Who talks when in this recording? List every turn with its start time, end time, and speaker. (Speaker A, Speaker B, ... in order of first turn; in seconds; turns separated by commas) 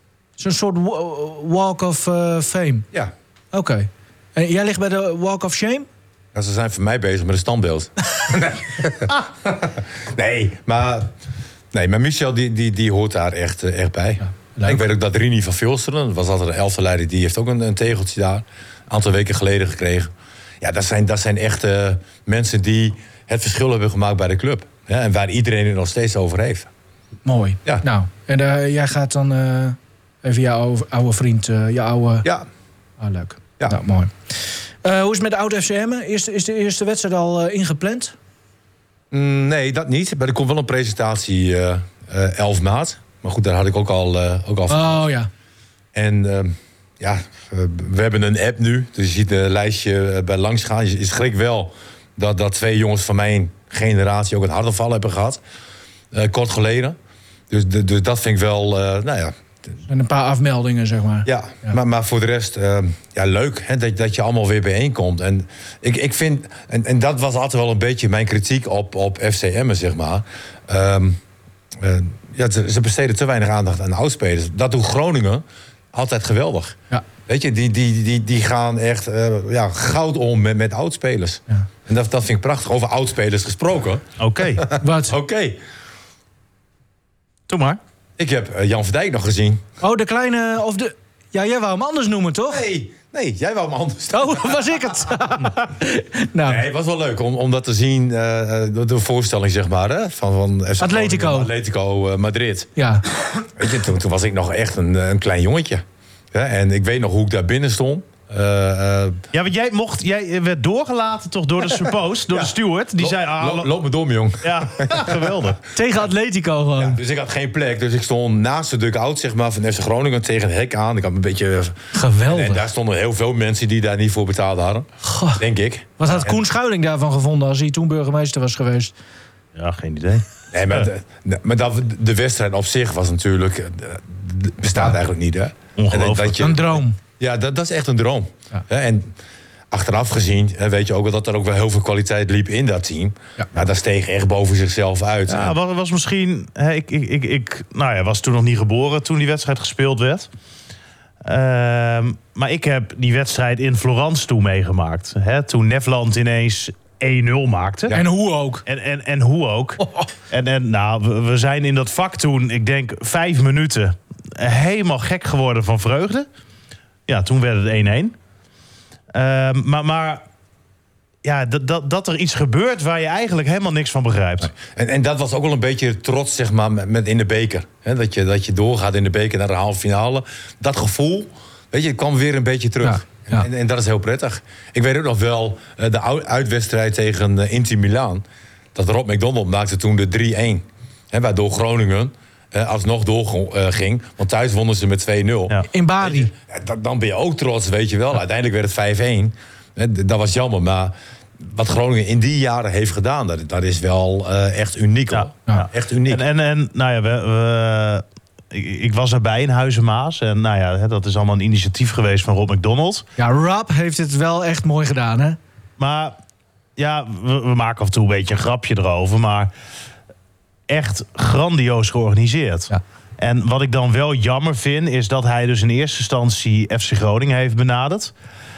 Speaker A: 0.4-2.9, Speaker A: 3.5-5.9, Speaker B: 6.3-11.1, Speaker B: 11.7-26.7, Speaker A: 14.6-14.8, Speaker A: 27.2-32.2, Speaker A: 33.0-34.1, Speaker A: 34.8-38.1, Speaker B: 39.1-45.0, Speaker A: 44.7-45.3, Speaker B: 45.9-55.4, Speaker B: 56.1-57.0, Speaker B: 57.5-59.3, Speaker A: 59.9-61.7, Speaker B: 61.2-71.2, Speaker B: 71.8-85.6, Speaker C: 84.2-84.6, Speaker A: 84.8-85.2, Speaker C: 87.5-87.8, Speaker B: 88.2-89.6, Speaker A: 89.8-92.6, Speaker B: 92.5-94.6, Speaker A: 94.1-96.6, Speaker B: 96.4-102.7, Speaker A: 100.8-101.5, Speaker A: 102.8-103.0, Speaker B: 103.5-109.2, Speaker C: 109.3-113.7, Speaker B: 112.3-115.3, Speaker C: 114.4-115.6, Speaker A: 115.7-117.0, Speaker B: 116.8-125.9, Speaker A: 121.9-122.6, Speaker A: 125.0-125.4, Speaker A: 126.0-128.9, Speaker C: 129.5-130.8, Speaker B: 130.5-139.1, Speaker C: 135.8-136.4, Speaker A: 136.4-137.0, Speaker B: 139.7-145.6, Speaker C: 145.3-150.3, Speaker C: 151.2-158.0, Speaker A: 157.9-158.6, Speaker C: 158.7-166.3, Speaker C: 167.1-168.1, Speaker C: 169.1-170.2, Speaker C: 171.2-174.5, Speaker B: 174.4-188.2, Speaker A: 182.8-183.4, Speaker B: 188.7-206.2, Speaker A: 195.7-196.3, Speaker C: 205.1-213.0, Speaker A: 213.2-215.4, Speaker C: 215.8-216.1, Speaker C: 216.8-219.5, Speaker C: 220.7-228.1